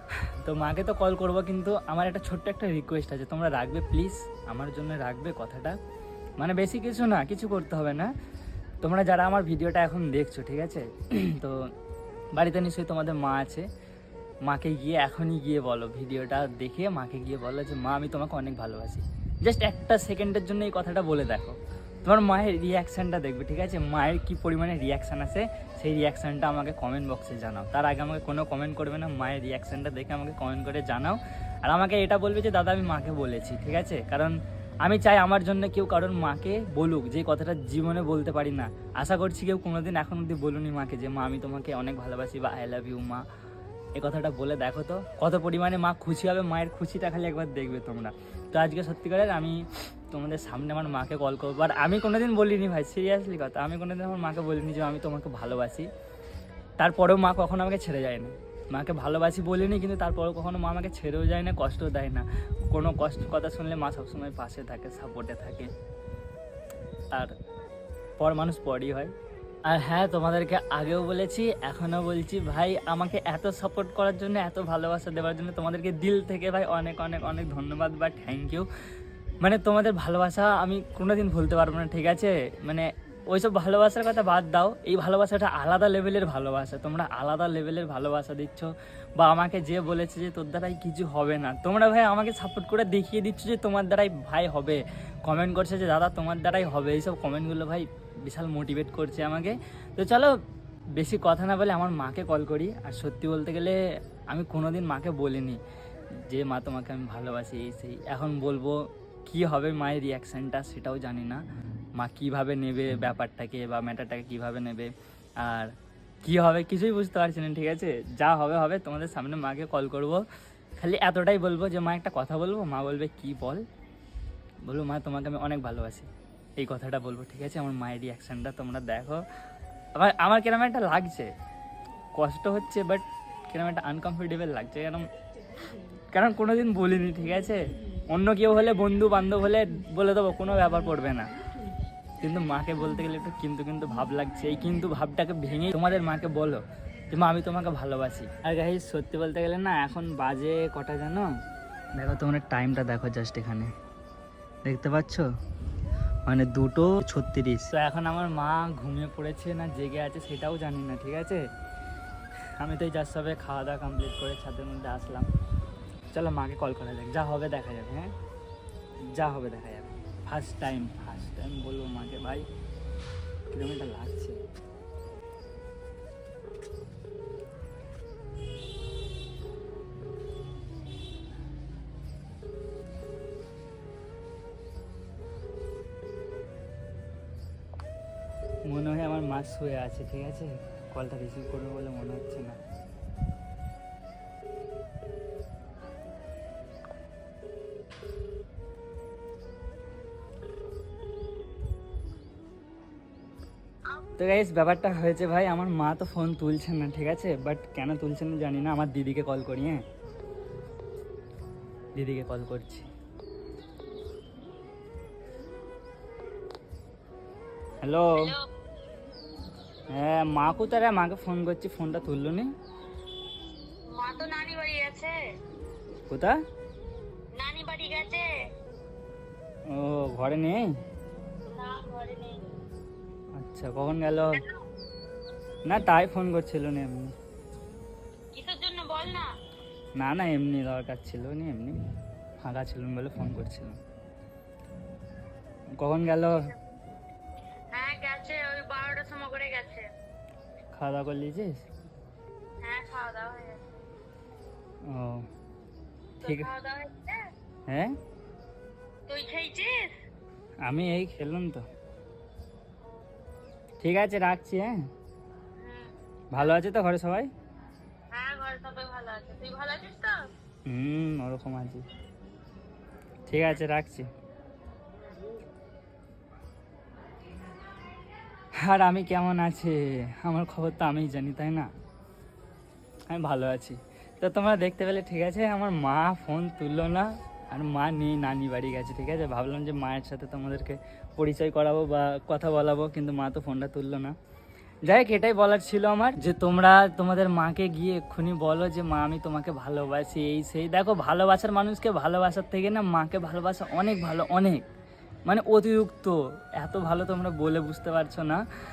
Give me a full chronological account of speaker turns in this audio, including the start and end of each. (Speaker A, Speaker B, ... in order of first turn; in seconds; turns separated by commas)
Speaker A: 0.4-5.8, Speaker A: 6.4-8.1, Speaker A: 8.8-11.6, Speaker A: 12.3-13.7, Speaker A: 14.4-43.2, Speaker A: 44.0-55.9, Speaker A: 56.8-65.7, Speaker A: 68.2-69.1, Speaker A: 69.7-78.7, Speaker A: 79.4-100.4, Speaker A: 100.9-103.8, Speaker A: 104.3-105.6, Speaker A: 106.3-111.4, Speaker A: 112.0-114.9, Speaker A: 115.4-115.7, Speaker A: 116.2-120.2, Speaker A: 120.8-123.6, Speaker A: 124.7-129.2, Speaker A: 130.0-131.3, Speaker A: 132.2-135.0, Speaker A: 136.1-137.6, Speaker A: 138.1-141.3, Speaker A: 142.2-151.3, Speaker A: 151.9-153.7, Speaker A: 154.7-155.3, Speaker A: 156.3-161.5, Speaker A: 162.6-165.3, Speaker A: 166.1-168.1, Speaker A: 169.1-172.5, Speaker A: 173.5-174.4, Speaker A: 188.7-192.6, Speaker A: 204.2-209.8, Speaker A: 212.0-212.9, Speaker A: 217.8-218.3, Speaker B: 218.2-218.4, Speaker A: 219.9-222.5, Speaker B: 223.9-225.2, Speaker A: 226.1-226.4, Speaker B: 227.3-228.3, Speaker A: 229.7-230.7, Speaker B: 231.5-232.5, Speaker A: 233.4-234.4, Speaker A: 235.7-237.1, Speaker B: 238.3-239.3, Speaker A: 240.0-241.8, Speaker A: 242.4-243.8, Speaker A: 245.8-246.5, Speaker B: 247.7-249.8, Speaker A: 250.7-251.6, Speaker B: 252.6-253.6, Speaker A: 254.8-255.3, Speaker A: 256.2-256.5, Speaker B: 256.2-257.2, Speaker A: 257.7-257.9, Speaker B: 259.1-259.9, Speaker A: 260.6-261.6, Speaker A: 263.8-264.8, Speaker B: 265.6-265.9, Speaker A: 266.3-267.3, Speaker B: 268.1-270.1, Speaker A: 270.6-271.9, Speaker A: 273.3-274.1, Speaker A: 278.6-281.7, Speaker A: 283.1-294.1, Speaker A: 294.9-304.6, Speaker A: 305.3-308.4